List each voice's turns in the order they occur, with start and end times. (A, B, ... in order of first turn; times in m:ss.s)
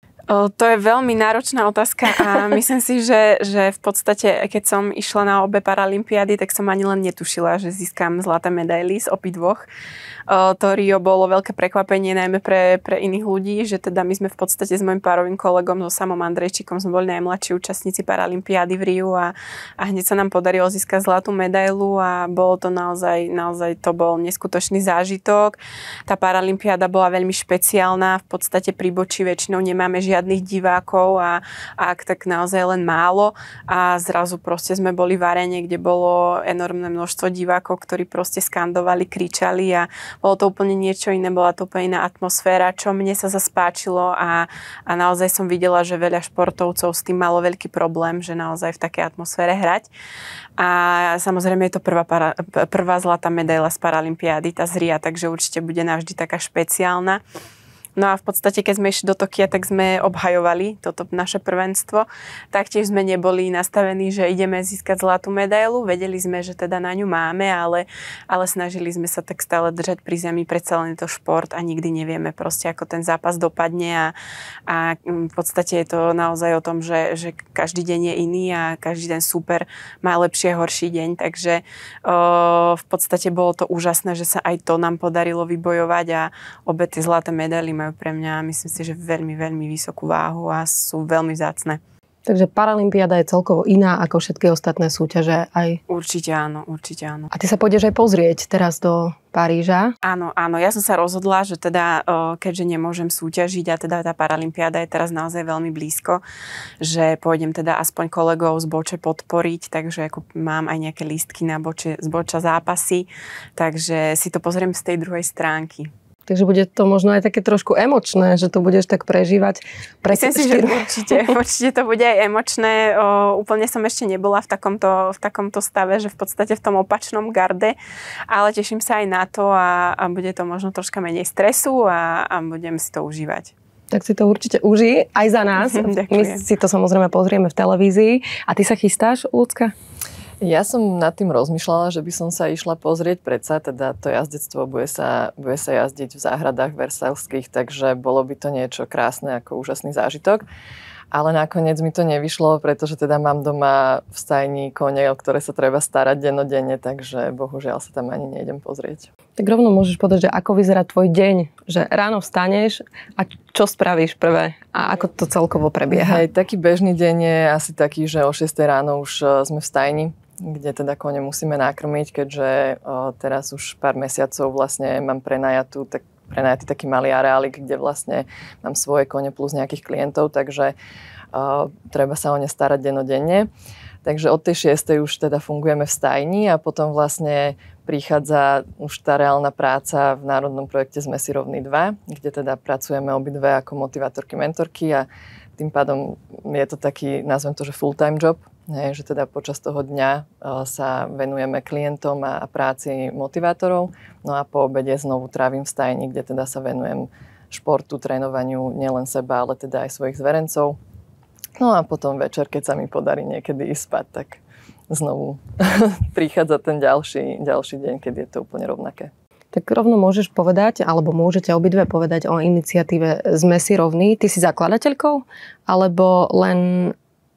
0:00.3-0:09.6 A
0:10.3-0:49.9 A
0:50.6-0:57.2 A
0:58.0-1:14.1 A
1:14.7-1:31.8 A
1:32.3-1:35.8 B
1:35.9-1:37.3 A
1:37.3-1:39.9 B
1:40.0-1:46.2 A
1:46.8-1:55.9 A
1:56.3-2:00.9 B
2:00.1-2:07.8 A
2:08.3-2:13.5 A
2:13.9-2:19.7 B
2:15.6-2:16.4 A
2:20.4-2:30.4 C
2:31.1-2:39.1 C
2:39.4-2:46.2 B
2:45.9-3:00.7 C
3:01.3-3:03.5 C
3:04.0-3:30.8 C
3:31.6-3:39.1 C
3:39.5-3:47.0 B